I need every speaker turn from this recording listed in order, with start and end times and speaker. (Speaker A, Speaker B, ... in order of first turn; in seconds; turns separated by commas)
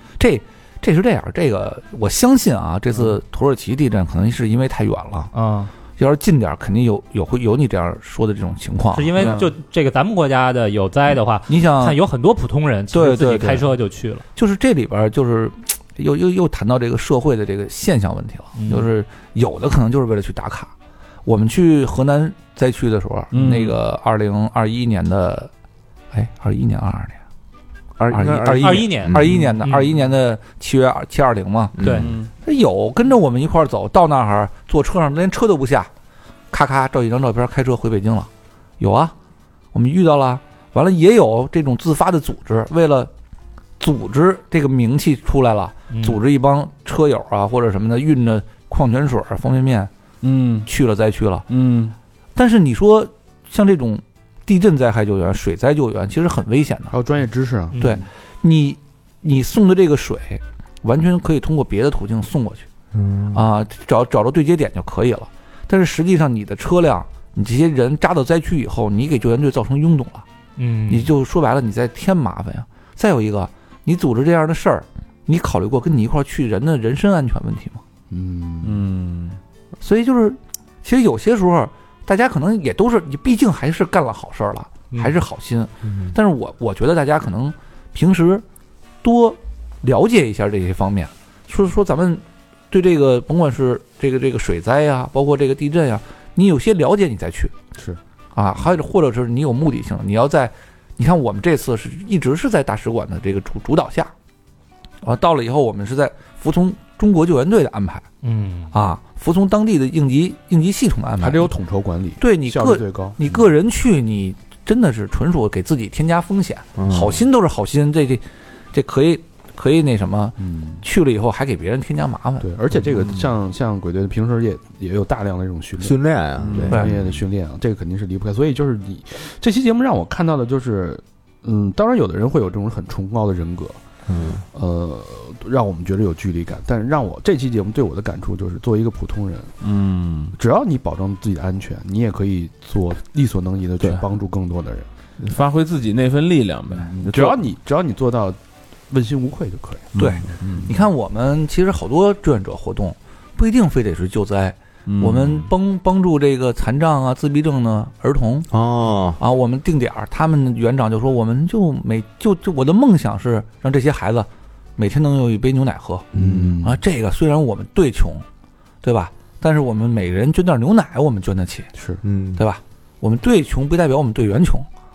Speaker A: 0.2-5.3, Speaker B: 5.3-5.7, Speaker A: 6.0-9.3, Speaker B: 8.9-14.2, Speaker C: 9.2-9.5, Speaker A: 11.5-12.0, Speaker A: 12.9-13.7, Speaker A: 14.3-20.7, Speaker B: 18.6-18.9, Speaker A: 21.2-25.5, Speaker C: 23.3-23.8, Speaker A: 26.1-27.2, Speaker D: 28.0-29.4, Speaker A: 28.1-31.8, Speaker B: 28.6-29.9, Speaker D: 31.8-32.1, Speaker B: 31.8-32.1, Speaker C: 31.9-32.3, Speaker A: 32.4-35.9, Speaker A: 36.5-38.3, Speaker A: 38.8-39.1, Speaker A: 39.7-43.1, Speaker A: 43.8-49.9, Speaker B: 45.9-46.2, Speaker C: 50.2-50.7, Speaker A: 50.6-51.5, Speaker C: 51.5-51.9, Speaker A: 52.4-57.0, Speaker E: 56.9-57.9, Speaker A: 57.8-62.7, Speaker D: 62.9-63.4, Speaker A: 63.3-70.2, Speaker B: 70.6-71.1, Speaker A: 70.9-77.8, Speaker E: 78.1-78.8, Speaker C: 78.6-79.4, Speaker A: 79.8-88.5, Speaker D: 85.8-86.2, Speaker A: 89.0-97.5, Speaker A: 98.3-104.1, Speaker A: 105.0-108.1, Speaker B: 108.2-108.7, Speaker A: 108.7-111.5, Speaker E: 111.2-113.2, Speaker A: 112.2-122.5, Speaker D: 116.8-117.2, Speaker E: 120.4-120.8, Speaker E: 122.4-133.8, Speaker D: 125.8-126.9, Speaker C: 126.5-126.8, Speaker D: 134.1-134.4, Speaker E: 134.5-139.6, Speaker C: 139.6-140.3, Speaker E: 140.3-144.9, Speaker C: 145.2-147.4, Speaker E: 146.7-148.4, Speaker E: 148.9-149.9, Speaker C: 149.9-150.7, Speaker A: 150.0-158.5, Speaker C: 154.9-155.5, Speaker D: 158.5-159.2, Speaker A: 159.2-166.1, Speaker D: 166.1-166.6, Speaker E: 166.2-166.8, Speaker A: 166.6-168.2, Speaker A: 168.8-171.7, Speaker E: 171.8-172.0, Speaker D: 172.0-172.4, Speaker A: 172.4-174.7